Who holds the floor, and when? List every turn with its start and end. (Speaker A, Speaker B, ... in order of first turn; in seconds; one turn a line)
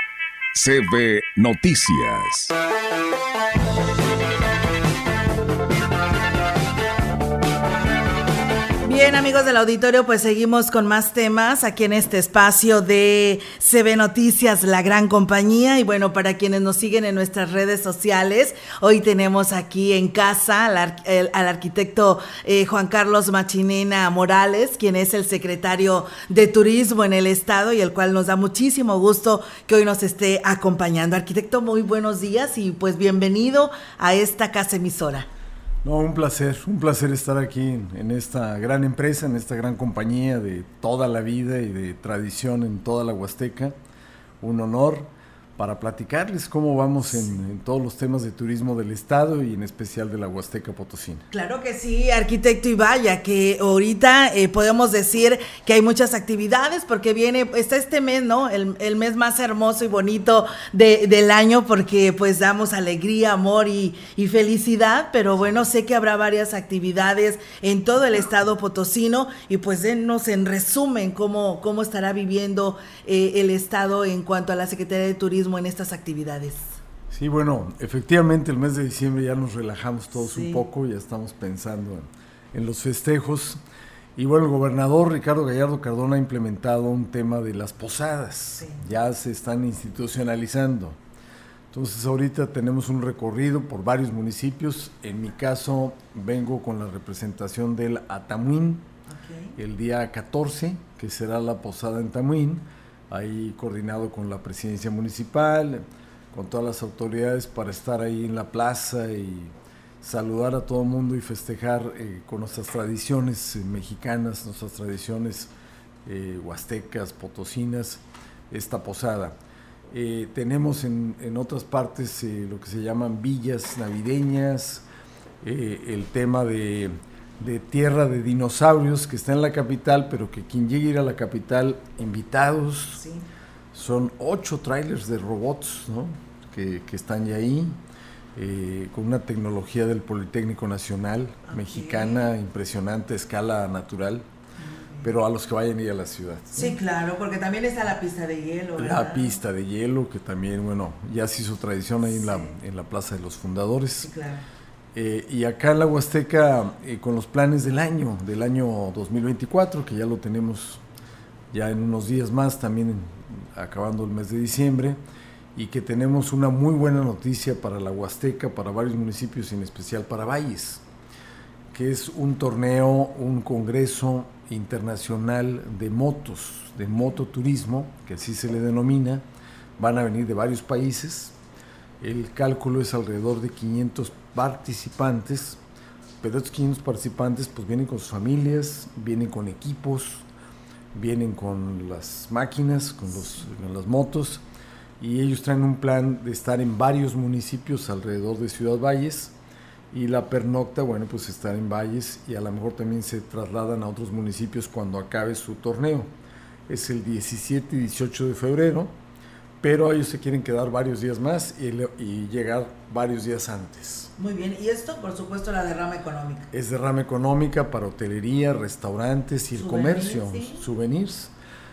Speaker A: 0.6-2.5
Speaker B: 8.8-35.3
Speaker C: 35.8-43.7
Speaker C: 44.4-51.3
Speaker B: 51.3-76.8
Speaker C: 77.1-83.6
Speaker B: 80.2-80.7
Speaker C: 84.2-91.0
Speaker C: 91.7-98.9
Speaker B: 99.1-99.5
Speaker C: 99.6-115.5
Speaker C: 116.1-119.4
Speaker C: 119.9-124.8
Speaker C: 125.4-133.0
Speaker B: 133.0-133.2
Speaker C: 133.7-137.8
Speaker C: 138.3-144.2
Speaker B: 141.5-142.3
Speaker B: 144.6-145.1
Speaker C: 145.0-146.8
Speaker B: 146.5-149.4
Speaker C: 148.8-154.1
Speaker B: 154.0-154.4
Speaker C: 154.9-160.8
Speaker C: 161.5-165.0
Speaker C: 165.6-170.8
Speaker C: 171.7-179.2
Speaker C: 179.8-181.3
Speaker C: 182.0-185.6
Speaker C: 186.2-190.2
Speaker C: 190.9-194.4
Speaker C: 195.0-199.3
Speaker C: 199.9-206.1
Speaker C: 206.7-208.9
Speaker C: 209.6-214.1
Speaker B: 214.2-216.5
Speaker C: 216.5-221.3
Speaker B: 219.6-220.6